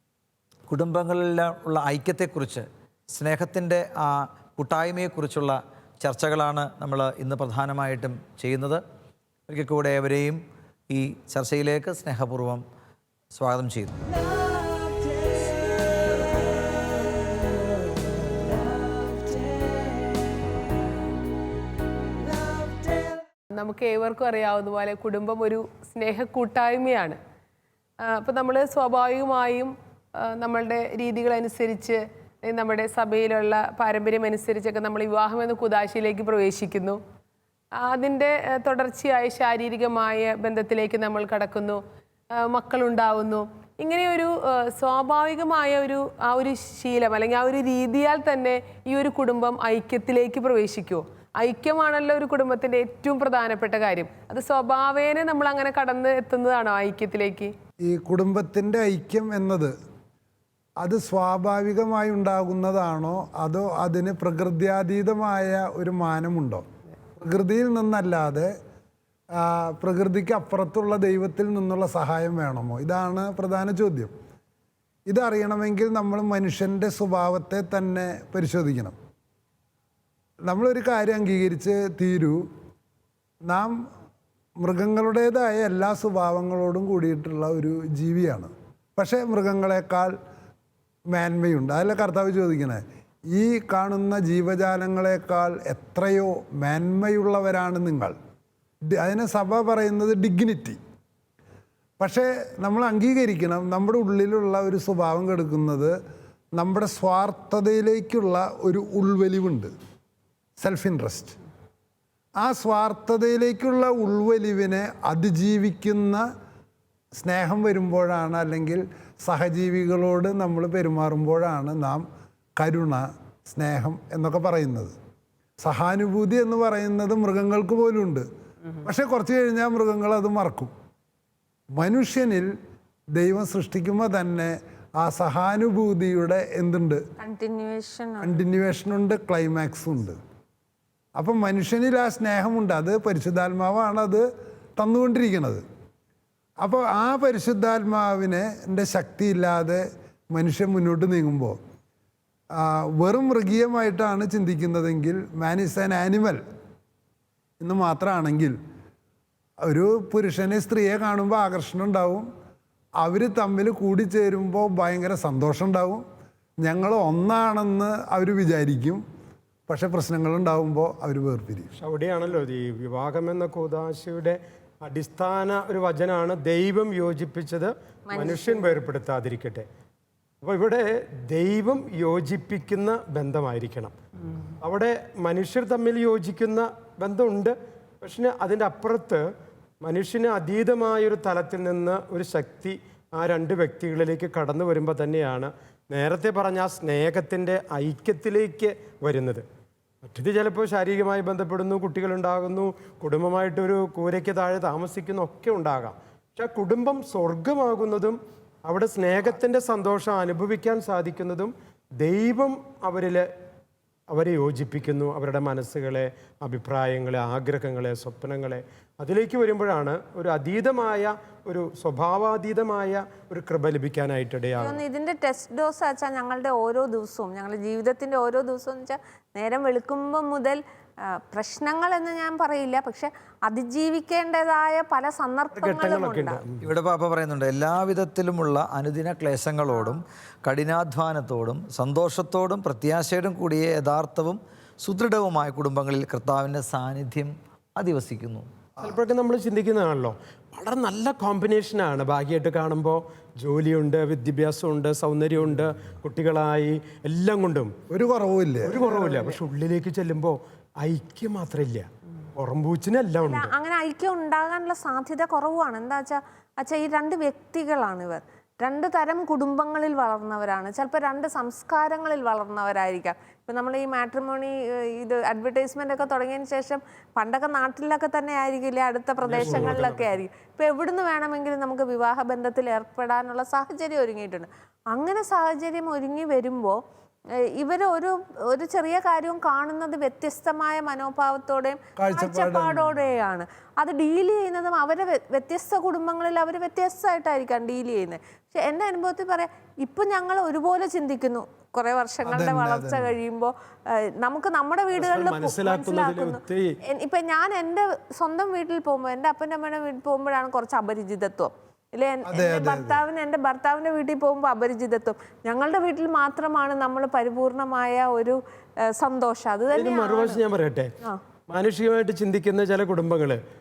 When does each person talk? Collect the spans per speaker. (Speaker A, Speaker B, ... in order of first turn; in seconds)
Speaker A: 0.7-8.8, 9.5-12.6, 13.3-14.1, 236.6-248.5
Speaker B: 23.5-27.2, 28.0-37.0, 37.8-41.8, 42.3-57.5
Speaker C: 57.8-59.7, 60.8-66.7, 67.2-68.5, 69.3-74.1, 75.1-79.0, 80.5-82.4, 83.5-83.8, 84.6-90.1, 91.1-98.2, 98.9-100.8, 102.0-106.0, 106.6-109.7, 110.6-111.4, 112.4-116.3, 117.2-122.0, 122.6-124.9, 125.6-128.2, 128.8-130.7, 131.8-132.5, 133.1-137.0, 138.2-140.2, 141.2-144.2, 144.8-145.6, 146.6-151.6, 152.5-156.4, 157.6-158.6, 159.6-162.3, 163.0-166.0, 166.6-169.0, 169.7-171.7, 257.9-258.8, 292.0-292.9, 302.2-303.1, 312.3-313.0
Speaker D: 137.2-138.4, 178.1-178.8, 224.6-236.4, 239.7-240.0, 263.2-286.8, 287.5-320.4
Speaker E: 171.8-179.7, 180.4-183.9, 184.6-189.3, 189.8-199.4, 200.0-213.3, 214.1-224.8, 235.5-236.6, 248.8-257.7, 258.6-263.5, 279.2-280.2, 304.9-306.8, 319.7-320.9, 321.5-323.4